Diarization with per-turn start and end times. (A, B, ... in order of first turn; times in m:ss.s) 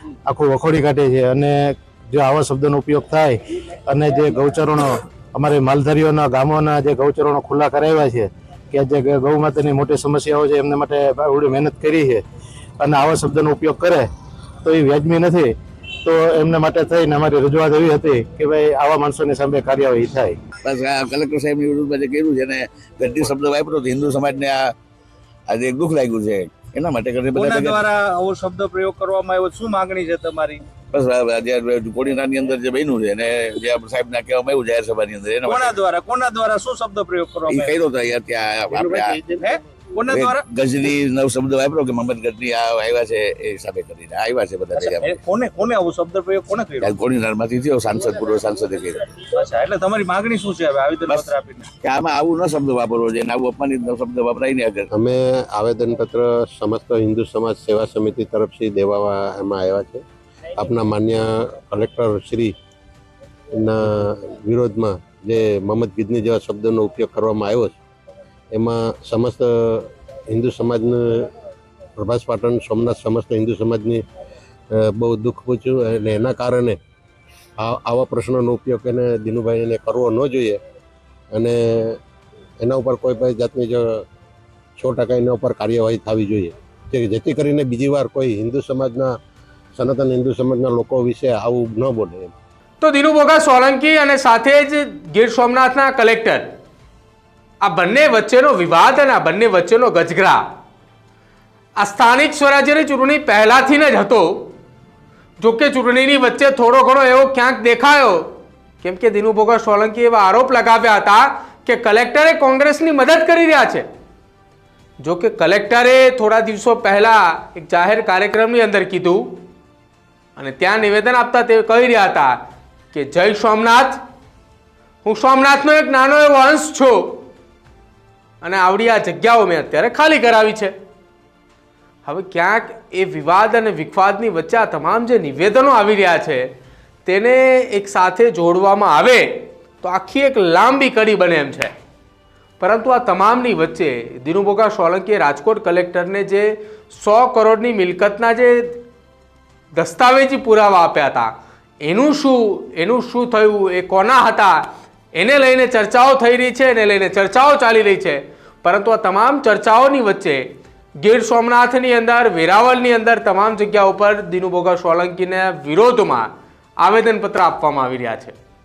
0:00.3-0:12.2 A
0:12.8-0:14.1 A
0:14.6-0:15.5 A
0:16.0-0:20.4 A
0:20.6-0:24.7 B
0:25.5-0:27.9 B
0:27.3-0:30.6 C
0:30.9-0:35.8 B
0:35.4-0:37.8 C
0:37.5-0:39.2 B
0:38.7-0:40.5 C
0:40.1-0:45.2 B
0:44.8-0:47.0 C
0:46.8-0:49.0 B
0:49.2-0:51.7 C
0:51.1-0:54.9 B
0:54.9-1:00.0 D
1:00.6-1:02.5 D
1:03.6-1:07.8 D
1:08.5-1:11.3 D
1:12.0-1:14.0 D
1:14.7-1:16.8 D
1:17.6-1:20.6 D
1:21.3-1:22.0 D
1:22.6-1:24.0 D
1:24.8-1:29.1 D
1:29.8-1:32.3 D
1:32.8-1:36.5 E
1:37.6-1:40.4 E
1:41.8-1:44.5 E
1:45.4-1:48.3 E
1:48.8-1:53.9 E
1:55.0-1:59.4 E
2:00.4-2:02.4 E
2:02.9-2:04.0 E
2:05.0-2:07.2 E
2:08.4-2:10.7 E
2:12.1-2:16.5 E
2:17.1-2:21.7 E
2:22.6-2:28.8 E
2:29.8-2:31.3 E
2:31.8-2:40.5 E
2:41.0-2:48.4 E